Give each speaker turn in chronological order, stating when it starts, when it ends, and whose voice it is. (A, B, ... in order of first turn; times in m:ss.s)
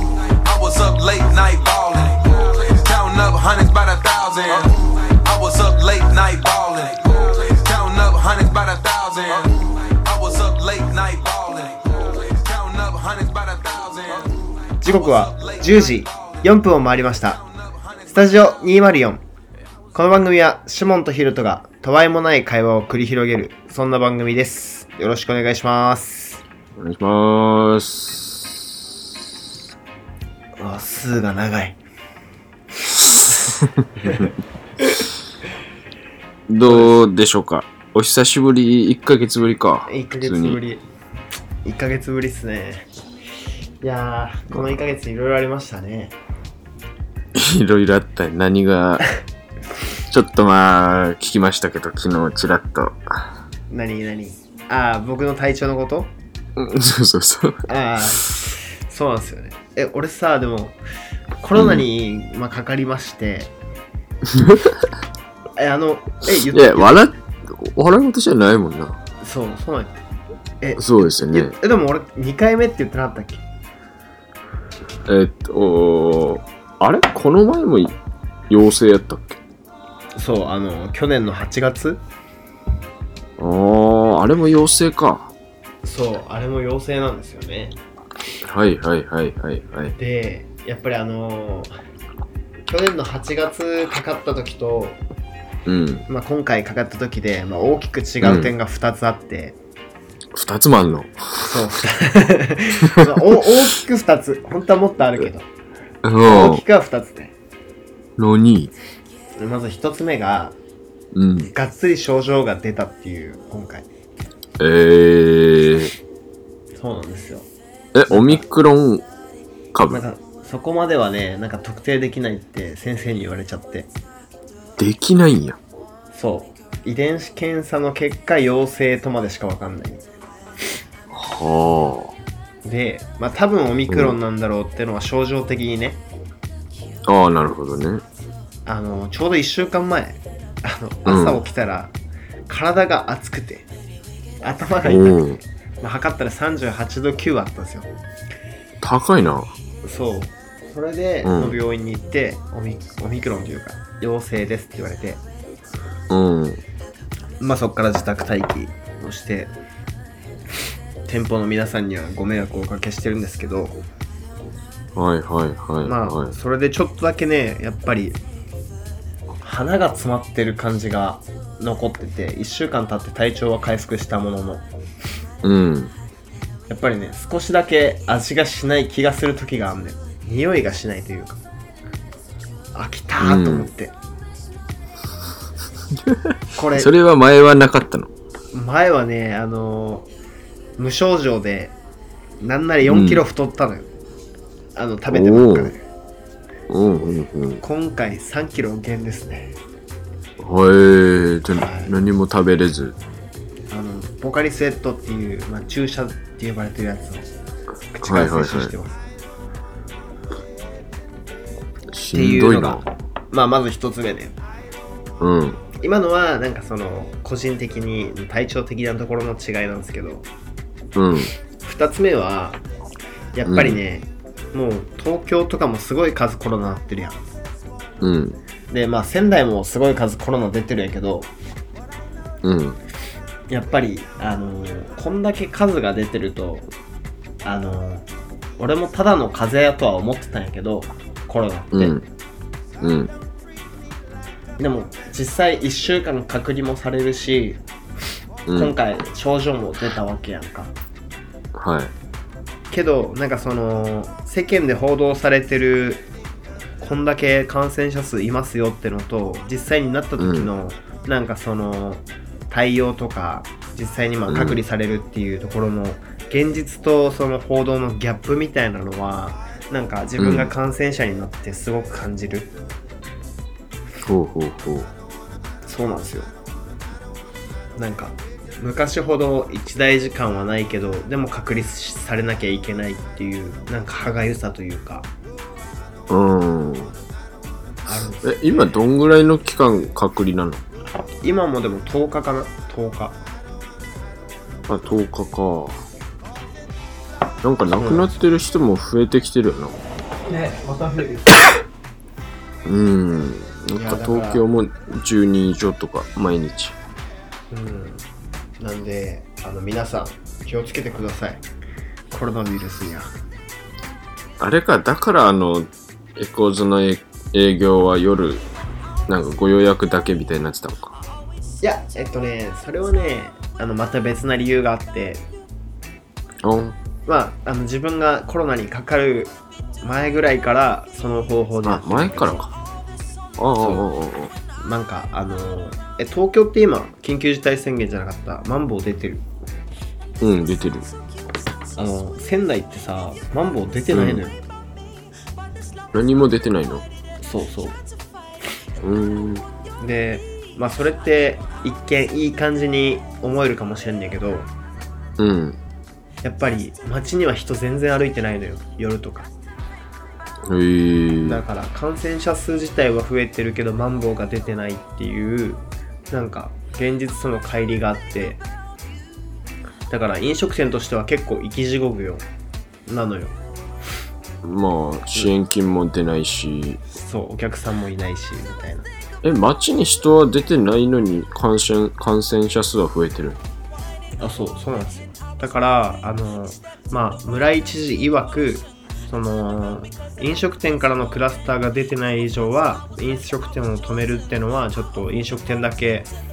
0:00.2-0:16.4 A
0:14.8-0:17.4 B
0:17.2-0:18.2 A
0:18.1-0:19.2 B
0:19.9-0:26.4 B
0:26.8-0:28.7 C
0:30.6-0:31.8 B
0:33.1-0:34.3 B
0:36.5-0:40.6 C
0:36.6-0:37.0 B
0:39.9-0:40.8 B
0:41.6-0:42.9 B
0:43.8-0:46.2 B
0:47.3-0:49.1 C
0:50.1-0:53.3 C
0:53.7-0:56.1 B
0:56.6-0:57.7 C
0:57.7-1:00.8 B
1:01.4-1:03.5 B
1:01.6-1:01.9 C
1:04.3-1:04.9 C
1:05.6-1:07.1 B
1:06.5-1:09.0 C
1:09.2-1:10.0 B
1:10.6-1:13.4 B
1:10.8-1:11.6 C
1:15.1-1:18.0 C
1:18.5-1:19.4 C
1:20.2-1:22.0 B
1:23.4-1:25.3 C
1:25.8-1:27.8 B
1:28.4-1:30.0 C
1:30.0-1:31.7 B
1:32.7-1:35.0 B
1:35.7-1:36.0 C
1:36.1-1:39.6 B
1:38.2-1:38.5 C
1:40.3-1:41.6 C
1:41.4-1:45.5 B
1:42.8-1:43.4 C
1:46.0-1:46.6 C
1:46.2-1:47.4 B
1:48.2-1:48.7 C
1:49.4-1:50.6 B
1:51.1-1:51.5 C
1:51.4-1:53.9 B
1:54.6-1:55.9 C
1:56.8-1:57.5 B
1:57.9-1:59.0 C
1:58.1-1:58.4 B
1:59.7-2:00.0 C
1:59.9-2:03.9 B
2:04.8-2:05.6 C
2:06.1-2:10.0 B
2:11.1-2:12.2 C
2:12.6-2:16.0 B
2:13.9-2:14.2 C
2:17.1-2:18.0 C
2:18.7-2:21.9 B
2:21.1-2:21.4 C
2:22.5-2:23.7 B
2:24.4-2:25.2 B
2:24.8-2:25.4 C
2:25.8-2:27.9 B
2:28.8-2:29.5 C
2:29.8-2:35.2 B
2:31.2-2:31.6 C
2:36.1-2:36.6 C
2:37.4-2:39.5 B
2:41.1-2:43.8 B
2:45.0-2:46.3 C
2:45.8-2:48.2 B
2:49.4-2:54.7 B
2:55.4-2:55.9 C
2:56.7-3:01.4 B
3:02.7-3:04.0 B
3:03.2-3:03.7 C
3:06.0-3:08.1 C
3:06.5-3:06.9 B
3:08.5-3:10.1 B
3:10.8-3:11.8 B
3:12.4-3:13.9 B
3:12.8-3:13.2 C
3:14.8-3:15.8 B
3:15.1-3:15.7 C
3:16.7-3:17.6 C
3:17.6-3:19.6 B
3:20.4-3:23.0 C
3:21.5-3:21.9 B
3:23.7-3:27.3 B
3:27.9-3:29.0 B
3:28.0-3:28.7 C
3:31.9-3:32.8 C
3:32.1-3:34.4 B
3:35.2-3:35.6 C
3:35.8-3:40.3 B
3:41.0-3:41.3 C
3:41.6-3:42.6 B
3:43.3-3:47.3 B
3:43.5-3:43.8 C
3:48.0-3:48.4 C
3:48.7-3:51.3 B
3:52.4-3:52.8 C
3:53.5-3:56.7 B
3:57.4-3:58.1 B
3:58.6-4:02.0 B
4:01.7-4:02.0 C
4:02.8-4:03.1 C
4:04.6-4:07.6 B
4:08.5-4:08.8 C
4:08.5-4:10.7 B
4:11.6-4:11.9 C
4:12.7-4:16.0 B
4:16.8-4:32.5 B
4:20.2-4:20.5 C
4:24.3-4:24.6 C
4:30.2-4:30.5 C
4:34.0-4:34.9 C
4:35.7-4:36.3 B
4:37.8-4:45.1 B
4:46.1-4:47.0 C
4:47.9-4:48.7 B
4:48.2-4:50.6 C
4:51.2-4:53.2 B
4:54.7-4:55.8 C
4:57.4-4:59.8 C
4:57.8-4:58.2 B
5:00.3-5:01.3 B
5:02.6-5:06.8 C
5:03.8-5:04.4 B
5:07.5-5:08.0 B
5:08.6-5:11.4 B
5:12.1-5:13.1 B
5:14.4-5:18.4 C
5:19.1-5:21.0 C
5:21.6-5:25.2 B
5:26.4-5:26.8 C
5:27.1-5:32.5 B
5:31.6-5:32.5 C
5:33.4-5:34.3 C
5:33.6-5:33.9 B
5:34.6-5:39.3 B
5:40.2-5:40.9 C
5:41.8-5:44.4 B
5:43.9-5:44.2 C
5:45.9-5:46.9 C
5:47.2-5:47.8 B
5:48.8-5:49.5 C
5:49.8-5:54.5 B
5:55.2-5:55.6 C
5:56.2-5:59.3 B
6:00.5-6:01.4 C
6:01.2-6:08.4 B
6:09.9-6:12.2 B
6:12.9-6:13.4 B
6:14.4-6:16.8 C
6:16.9-6:18.9 B
6:19.2-6:23.4 C
6:24.2-6:36.1 B